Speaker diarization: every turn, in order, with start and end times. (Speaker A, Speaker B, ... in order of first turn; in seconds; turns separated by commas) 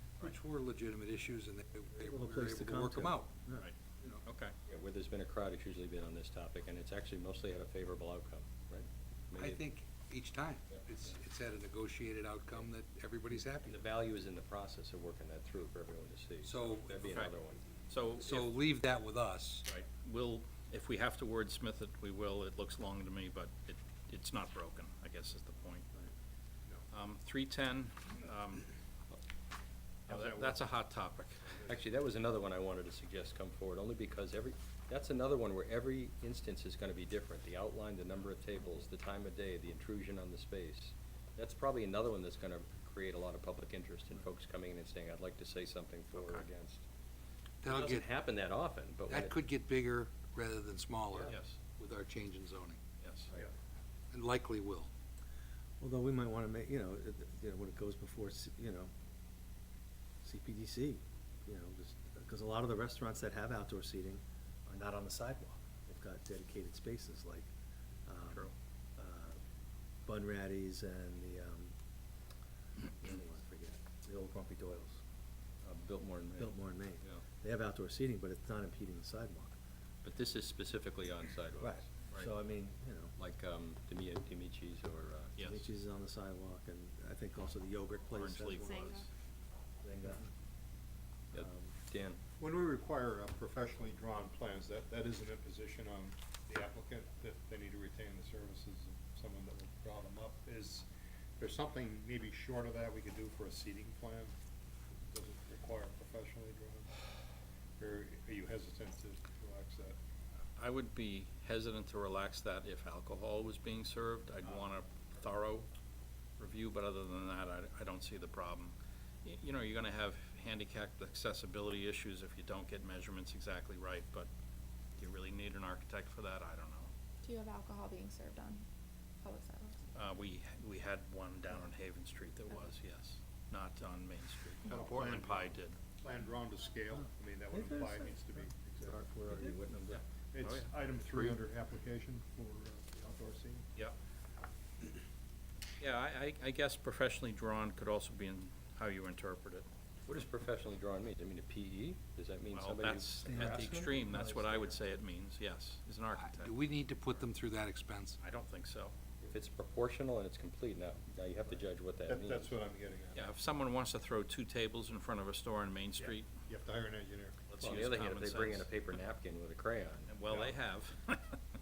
Speaker A: 0.2-3.4, Speaker B: 2.0-3.7, Speaker C: 3.5-4.5, Speaker D: 4.7-9.6, Speaker A: 9.4-13.8, Speaker D: 13.6-17.6, Speaker A: 16.4-17.0, Speaker C: 17.1-17.3, Speaker C: 17.9-18.5, Speaker A: 18.2-19.7, Speaker C: 19.6-25.9, Speaker C: 26.9-28.7, Speaker C: 30.1-31.5, Speaker E: 30.1-30.7, Speaker E: 31.4-31.8, Speaker D: 31.6-46.8, Speaker C: 46.1-46.5, Speaker A: 47.6-48.1, Speaker D: 47.6-49.4, Speaker A: 49.1-52.8, Speaker C: 51.3-51.6, Speaker C: 53.0-53.3, Speaker A: 54.1-54.9, Speaker B: 55.8-58.9, Speaker B: 60.2-67.5, Speaker B: 68.0-69.4, Speaker B: 70.0-71.7, Speaker B: 73.0-75.0, Speaker D: 75.6-77.2, Speaker B: 76.4-79.5, Speaker D: 80.0-81.9, Speaker B: 81.6-83.1, Speaker D: 83.2-85.3, Speaker C: 85.3-85.7, Speaker B: 85.4-88.8, Speaker C: 88.1-89.0, Speaker B: 89.8-90.3, Speaker B: 91.3-91.7, Speaker D: 91.3-92.2, Speaker E: 92.4-100.8, Speaker E: 101.4-104.3, Speaker E: 105.0-106.9, Speaker E: 107.8-110.0, Speaker C: 110.5-115.7, Speaker C: 116.4-124.3, Speaker C: 125.0-126.9, Speaker F: 127.2-128.6, Speaker F: 129.2-129.7, Speaker C: 129.9-135.8, Speaker E: 134.7-135.5, Speaker E: 136.0-139.0, Speaker B: 136.9-139.8, Speaker D: 138.9-140.0, Speaker C: 139.9-140.7, Speaker E: 140.3-143.6, Speaker C: 145.8-149.7, Speaker D: 150.1-153.8, Speaker C: 152.5-156.5, Speaker B: 153.2-154.8, Speaker A: 156.2-158.2, Speaker C: 158.2-158.9, Speaker D: 159.3-162.5, Speaker E: 162.1-163.3, Speaker C: 163.1-166.4, Speaker E: 166.0-167.4, Speaker C: 167.5-168.7, Speaker D: 167.5-170.1, Speaker C: 170.1-171.4, Speaker E: 170.3-170.6